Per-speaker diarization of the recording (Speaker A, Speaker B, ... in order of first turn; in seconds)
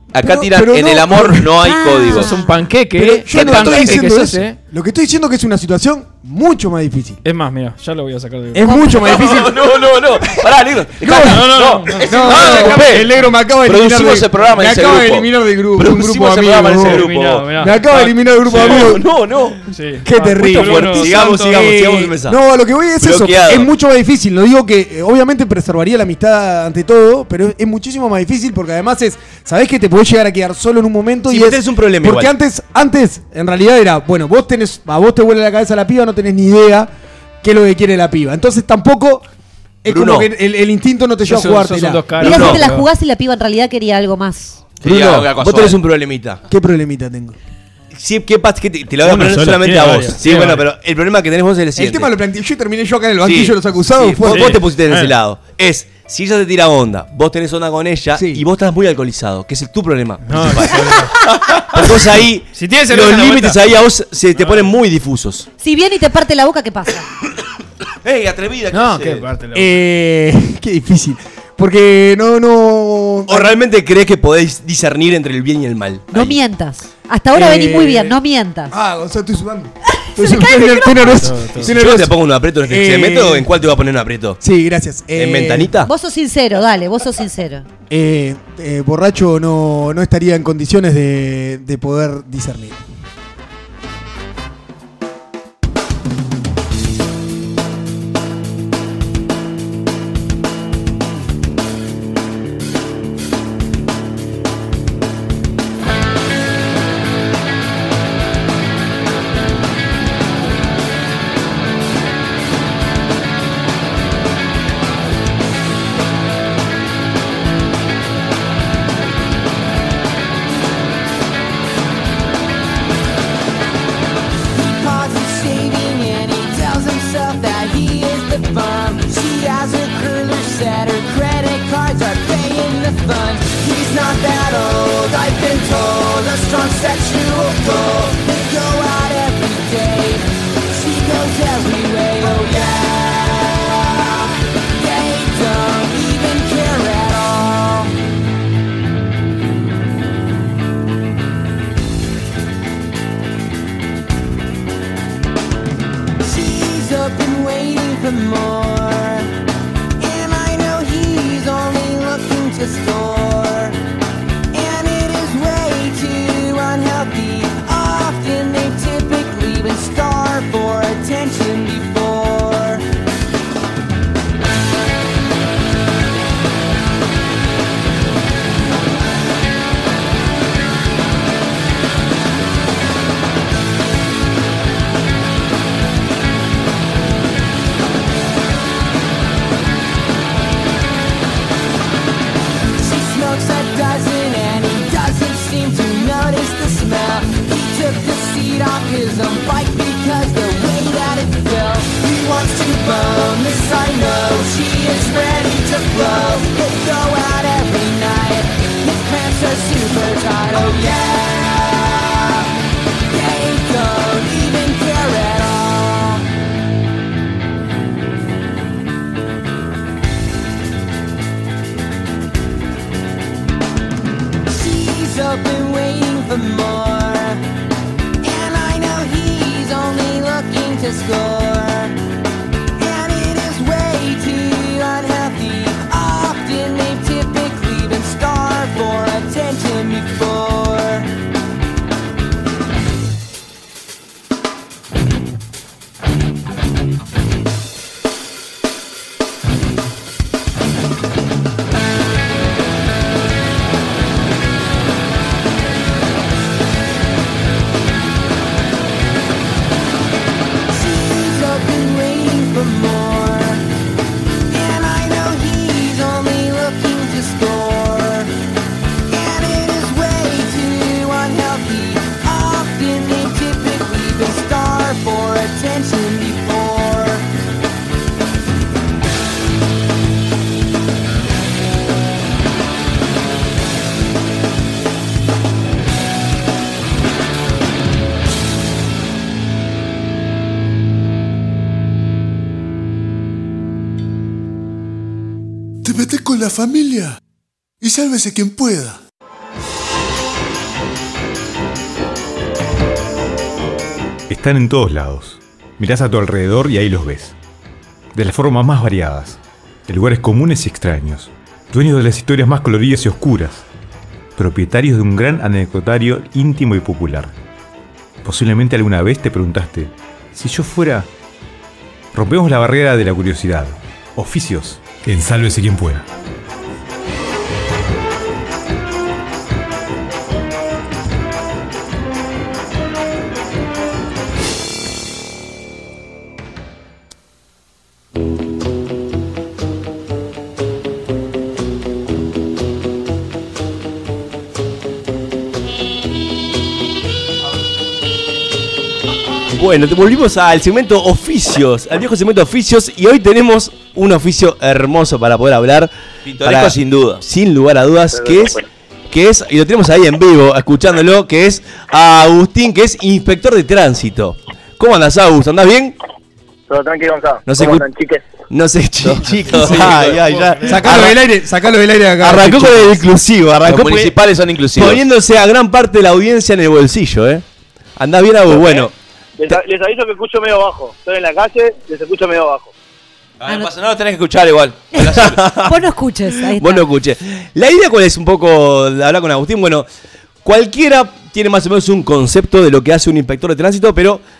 Speaker A: 0.1-2.4, 3.3-4.0, 9.0-13.1, 13.6-17.5, 18.5-19.5, 23.0-23.6, 44.8-45.8, 68.0-69.2, 356.2-357.2, 369.0-370.2, 373.6-375.0, 383.4-385.4
Speaker B: 0.2-1.5, 3.0-7.2, 8.5-9.7, 11.0-19.1, 20.0-36.9, 37.4-39.2, 39.8-42.2, 46.5-47.4, 51.8-54.6, 58.1-58.4, 69.5-73.6, 77.3-78.2, 78.7-83.5, 84.4-85.8, 87.9-92.8, 370.6-372.9
Speaker C: 1.6-2.6, 8.6-8.9, 42.2-44.7, 65.6-67.1, 76.1-78.7, 80.0-81.2, 85.8-87.7, 384.9-386.9
Speaker D: 2.1-4.6, 7.2-8.8, 11.2-13.1, 16.8-18.8, 19.7-21.4, 41.2-42.9, 49.0-50.6, 54.3-55.1, 60.2-61.5, 62.5-63.6, 64.3-64.7, 68.7-69.8, 81.1-81.8, 369.4-370.8
Speaker E: 18.5-19.6, 20.6-22.4, 31.3-32.3, 39.9-40.3, 42.2-42.6, 44.8-46.4, 47.9-52.1, 53.2-61.0, 61.5-65.5, 73.3-76.4, 81.6-84.4, 85.1-85.9, 349.5-366.0, 367.4-367.9, 368.5-371.2, 372.2-374.1, 374.8-377.4, 378.0-378.9, 385.2-385.8, 386.4-389.9, 390.4-394.2
Speaker F: 124.6-147.9, 156.2-159.3, 160.0-163.8, 164.5-172.8, 192.8-212.4, 213.1-216.3, 224.5-227.4, 228.2-232.0, 232.8-241.1, 260.7-263.6, 264.5-268.3, 269.1-277.2
Speaker G: 295.8-297.2, 297.8-299.0
Speaker H: 304.3-307.4, 308.1-313.7, 314.4-317.3, 318.2-321.1, 322.1-326.1
Speaker I: 358.1-358.6, 366.7-368.2, 379.4-382.7